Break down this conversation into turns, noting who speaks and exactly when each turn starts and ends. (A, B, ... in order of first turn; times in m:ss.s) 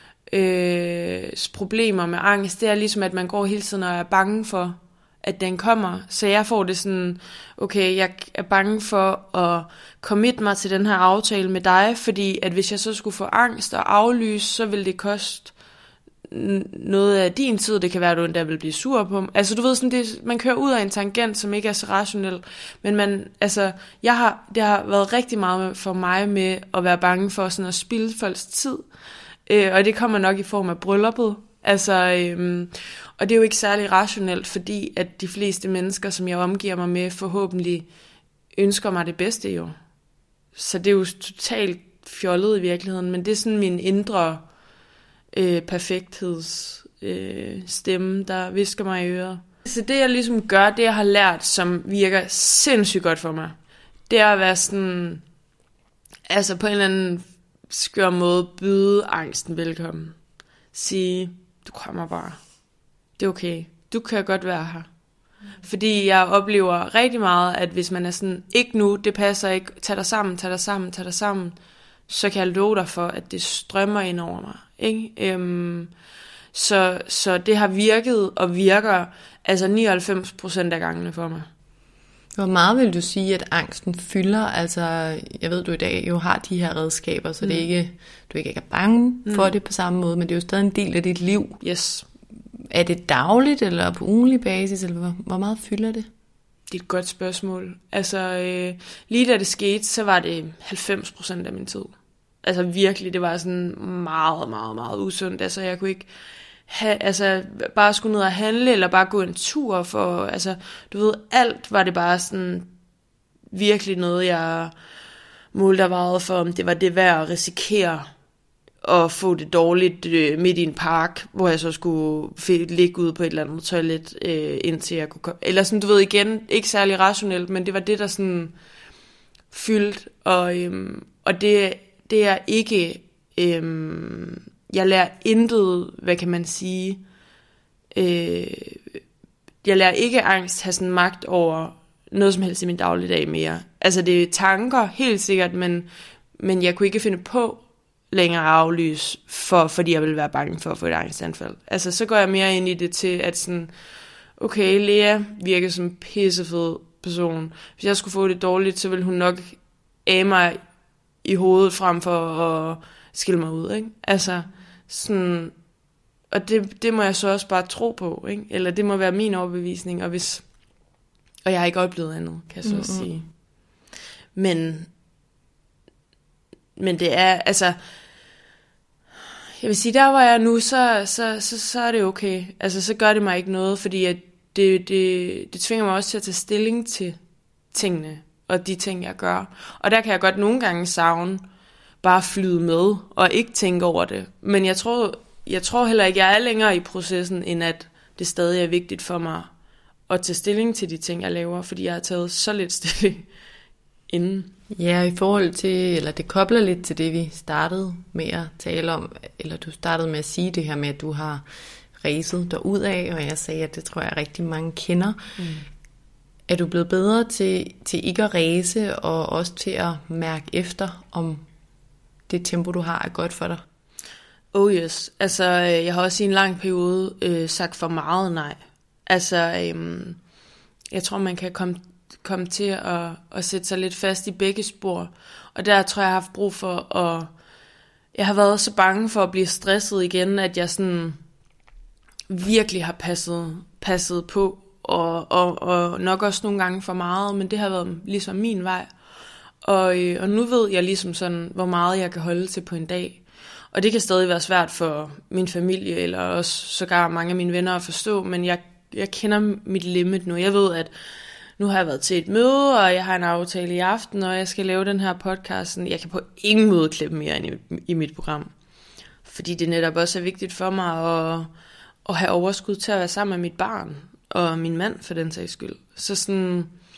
0:00.3-0:15.5 A
0:16.3-0:28.9 A
0:29.5-0:37.9 A
0:38.6-0:39.8 A
0:40.6-0:44.4 A
0:45.3-0:53.6 A
0:54.1-0:55.2 A
0:56.3-1:00.2 A
1:00.7-1:02.4 A
1:03.2-1:04.9 A
1:05.6-1:11.6 A
1:12.1-1:15.9 A
1:16.5-1:21.5 A
1:22.4-1:31.6 B
1:29.3-1:29.5 A
1:31.6-1:32.1 A
1:32.7-1:36.1 B
1:36.7-1:46.1 A
1:46.7-1:52.7 A
1:53.5-1:54.7 A
1:55.5-1:58.1 A
1:58.8-2:08.5 A
2:09.5-2:17.0 A
2:17.9-2:19.0 A
2:19.6-2:33.7 A
2:34.4-2:40.6 A
2:41.2-2:45.6 A
2:46.3-2:50.4 A
2:51.5-2:53.3 A
2:52.6-2:53.1 B
2:54.4-2:54.9 A
2:56.8-2:57.8 A
2:59.6-3:07.2 A
3:07.7-3:11.4 A
3:12.0-3:19.5 A
3:20.1-3:23.3 A
3:24.1-3:24.5 A
3:24.7-3:31.4 B
3:32.0-3:35.2 B
3:35.4-3:35.6 A
3:36.5-3:41.5 B
3:42.3-3:43.6 B
3:44.5-3:50.2 A
3:50.9-3:57.3 A
3:58.1-4:01.2 A
4:02.3-4:08.9 A
4:09.6-4:20.9 A
4:21.6-4:28.5 A
4:29.2-4:31.5 A
4:32.0-4:36.7 A